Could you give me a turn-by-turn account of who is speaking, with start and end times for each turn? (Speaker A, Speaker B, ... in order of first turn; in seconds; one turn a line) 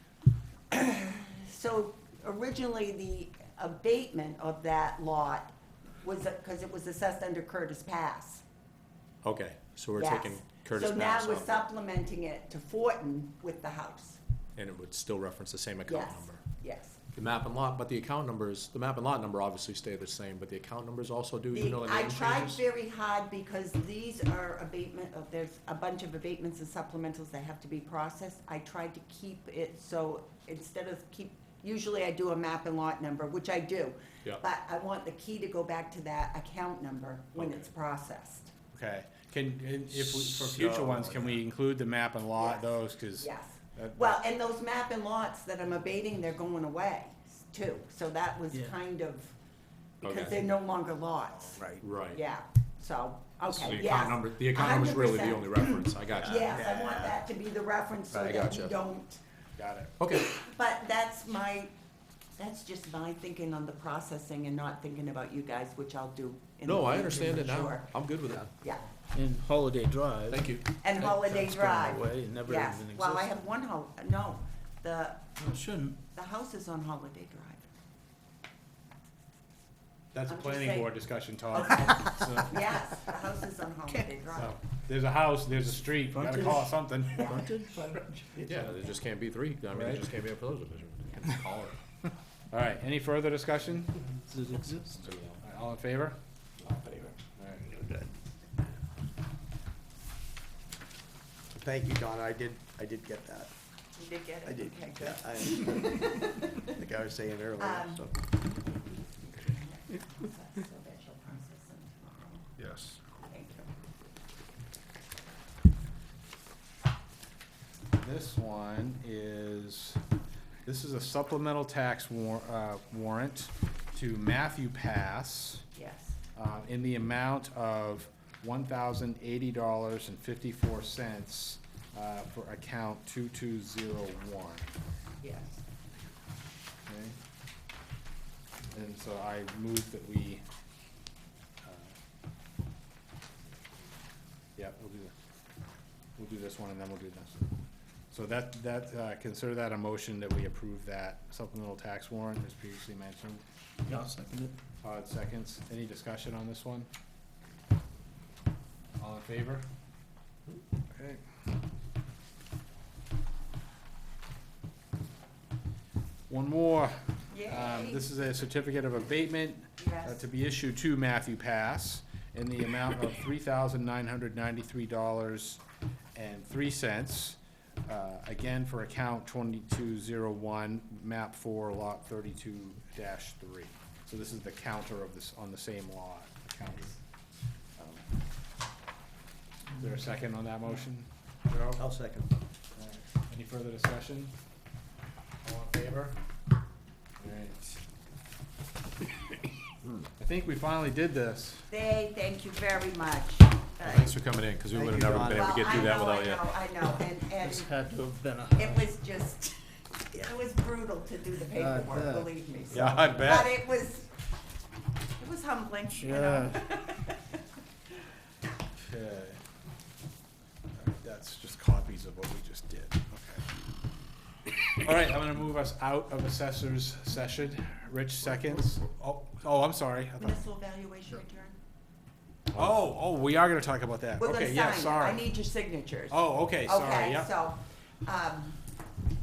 Speaker A: 0.7-8.4
Speaker B: 9.2-11.7
Speaker A: 9.9-14.2
Speaker B: 14.6-16.4
Speaker A: 15.9-17.0
Speaker B: 17.1-22.6
Speaker A: 21.5-38.5
Speaker B: 37.4-37.6
Speaker C: 38.7-44.2
Speaker B: 40.0-41.4
Speaker A: 42.4-49.3
Speaker B: 50.0-50.4
Speaker A: 50.0-59.2
Speaker D: 51.6-51.8
Speaker B: 51.8-52.2
Speaker B: 53.5-56.7
Speaker D: 56.2-57.2
Speaker B: 58.1-58.7
Speaker C: 59.6-59.9
Speaker B: 60.0-60.4
Speaker A: 60.1-61.7
Speaker A: 62.4-67.9
Speaker B: 66.6-68.5
Speaker A: 68.6-68.9
Speaker E: 69.1-73.3
Speaker B: 70.3-70.6
Speaker A: 70.8-75.2
Speaker E: 75.4-76.0
Speaker A: 76.1-77.7
Speaker C: 80.1-82.9
Speaker A: 80.3-80.9
Speaker A: 81.5-84.5
Speaker C: 84.3-87.4
Speaker E: 86.1-88.6
Speaker A: 87.1-87.4
Speaker B: 88.4-91.8
Speaker C: 89.7-90.1
Speaker C: 92.5-94.1
Speaker E: 94.3-95.0
Speaker B: 95.0-95.3
Speaker C: 95.4-96.2
Speaker D: 96.6-97.2
Speaker C: 97.4-97.9
Speaker D: 101.5-103.5
Speaker A: 103.9-106.7
Speaker D: 104.4-108.1
Speaker A: 107.6-108.1
Speaker A: 109.0-112.5
Speaker B: 112.6-113.0
Speaker A: 113.1-113.7
Speaker C: 117.9-120.0
Speaker C: 120.7-125.6
Speaker A: 125.7-126.2
Speaker C: 126.3-134.7
Speaker A: 135.2-135.6
Speaker C: 136.9-137.2
Speaker C: 138.7-140.4
Speaker C: 141.6-141.9
Speaker C: 144.6-145.1
Speaker C: 146.2-147.4
Speaker C: 148.1-153.4
Speaker E: 153.9-154.5
Speaker C: 154.8-156.9
Speaker C: 159.0-159.7
Speaker C: 160.9-161.2
Speaker C: 166.3-175.6
Speaker A: 167.3-168.1
Speaker A: 169.8-170.2
Speaker C: 176.1-186.9
Speaker C: 189.7-191.8
Speaker B: 191.8-192.3
Speaker C: 192.8-194.3
Speaker C: 195.4-196.2
Speaker C: 197.2-197.8
Speaker C: 200.2-201.7
Speaker A: 201.7-204.2
Speaker B: 203.8-206.5
Speaker D: 204.7-205.7
Speaker A: 205.2-207.7
Speaker E: 207.4-208.8
Speaker A: 208.5-214.1
Speaker E: 211.5-212.3
Speaker C: 212.7-213.6
Speaker A: 215.2-217.2
Speaker E: 216.0-216.7
Speaker C: 218.8-219.4
Speaker C: 220.7-223.5
Speaker C: 224.7-230.4
Speaker A: 230.2-231.6
Speaker C: 232.5-235.2
Speaker A: 234.2-238.6
Speaker C: 236.1-237.3